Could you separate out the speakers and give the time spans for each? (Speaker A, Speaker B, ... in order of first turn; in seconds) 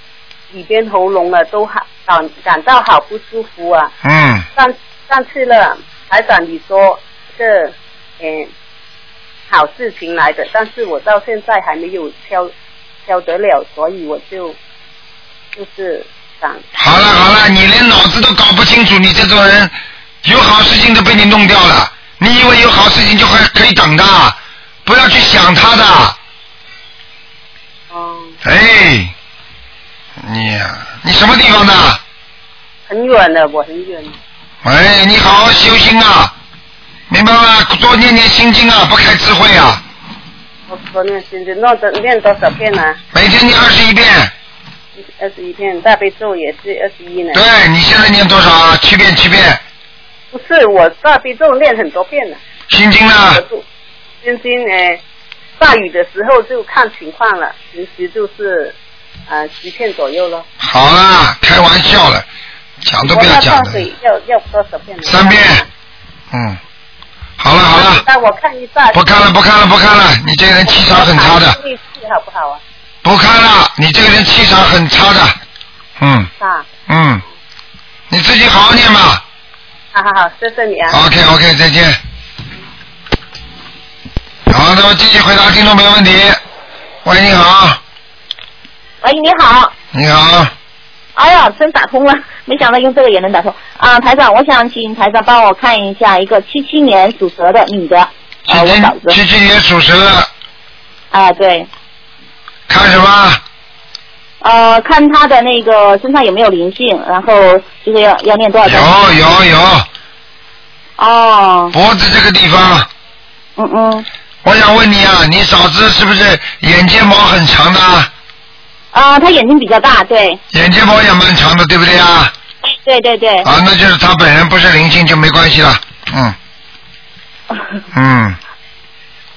Speaker A: 0.5-3.9, 4.5-8.5, 9.5-12.5, 13.1-14.6, 15.6-16.6, 27.9-28.4, 32.9-34.1, 40.7-43.0, 45.2-47.5, 50.3-52.4, 53.3-53.6, 54.2-55.0, 55.6-58.8, 59.3-60.5, 63.0-65.7, 67.7-69.3, 70.7-72.6, 76.4-76.7, 79.9-81.0
Speaker B: 4.0-4.5, 16.8-26.2, 28.4-29.1, 30.2-32.0, 34.6-36.3, 37.1-39.8, 43.1-44.3, 47.3-49.6, 52.7-53.4, 60.6-62.3, 62.9-63.8, 65.1-65.6, 66.3-66.6, 67.4-68.0, 68.9-71.6, 73.0-75.4, 76.0-76.3, 76.9-77.2, 78.1-79.2, 80.9-82.0, 84.5-86.4, 87.0-87.8, 89.9-90.5, 98.5-100.3, 102.7-103.4, 108.7-109.9, 111.7-112.9, 114.5-118.1, 120.5-122.3, 123.4-126.4, 127.9-128.4
Speaker C: 89.0-89.7, 91.2-99.2, 101.1-101.7, 104.4-108.9, 111.0-111.7, 113.6-114.1, 118.9-120.4, 122.7-123.5